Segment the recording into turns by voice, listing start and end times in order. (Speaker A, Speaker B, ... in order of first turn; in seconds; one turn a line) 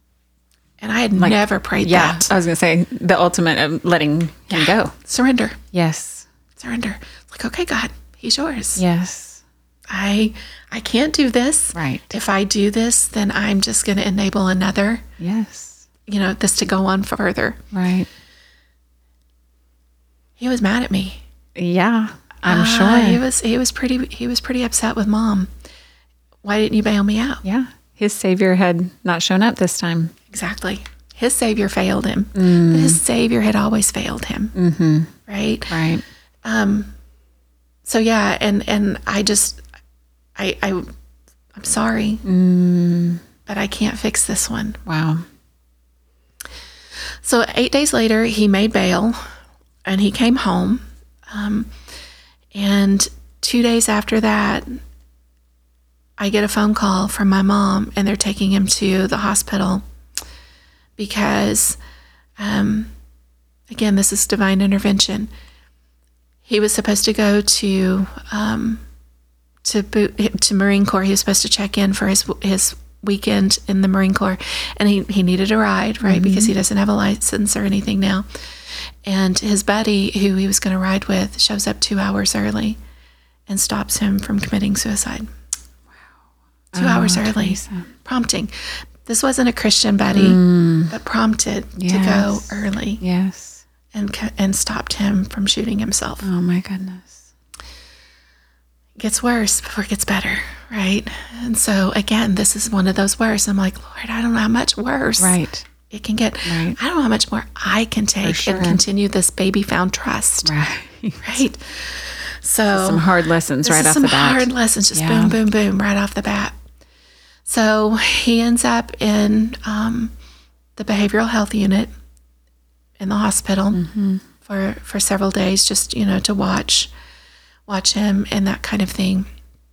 Speaker A: 0.8-2.3
Speaker B: 1.2-5.0
Speaker A: 4.5-5.6
Speaker B: 5.7-6.3
Speaker A: 6.6-8.8
Speaker B: 8.8-9.4
Speaker A: 9.9-15.1
Speaker B: 11.7-12.1
Speaker B: 15.2-15.8
Speaker A: 16.1-17.6
Speaker B: 17.7-18.1
Speaker A: 20.4-21.2
Speaker B: 21.6-23.2
Speaker A: 22.4-25.5
Speaker A: 26.4-27.4
Speaker B: 27.4-30.1
Speaker A: 30.3-34.5
Speaker B: 32.4-33.0
Speaker B: 34.5-35.1
Speaker A: 35.3-35.8
Speaker B: 35.7-36.0
Speaker A: 36.4-36.9
Speaker A: 37.9-39.6
Speaker A: 40.4-40.9
Speaker A: 41.5-42.2
Speaker B: 42.2-43.2
Speaker A: 43.5-44.8
Speaker B: 44.9-45.2
Speaker A: 47.2-49.3
Speaker A: 49.9-51.8
Speaker A: 52.5-54.8
Speaker A: 56.2-59.9
Speaker A: 61.0-61.8
Speaker A: 62.4-62.9
Speaker A: 63.7-65.3
Speaker A: 66.4-68.8
Speaker A: 69.6-82.8
Speaker B: 76.0-76.5
Speaker A: 83.5-85.3
Speaker B: 86.7-87.9
Speaker A: 86.8-88.5
Speaker A: 89.0-93.0
Speaker B: 90.1-90.9
Speaker B: 91.8-93.6
Speaker A: 93.9-96.3
Speaker B: 96.2-97.2
Speaker A: 99.0-110.5
Speaker B: 105.2-105.7
Speaker B: 106.4-106.8
Speaker B: 108.2-108.8
Speaker B: 110.4-111.4
Speaker A: 111.2-113.1
Speaker B: 112.7-115.4
Speaker A: 113.7-116.6
Speaker A: 117.5-120.1
Speaker A: 120.8-121.9
Speaker A: 123.0-123.8
Speaker B: 123.7-124.2
Speaker A: 124.4-126.9
Speaker A: 127.7-129.3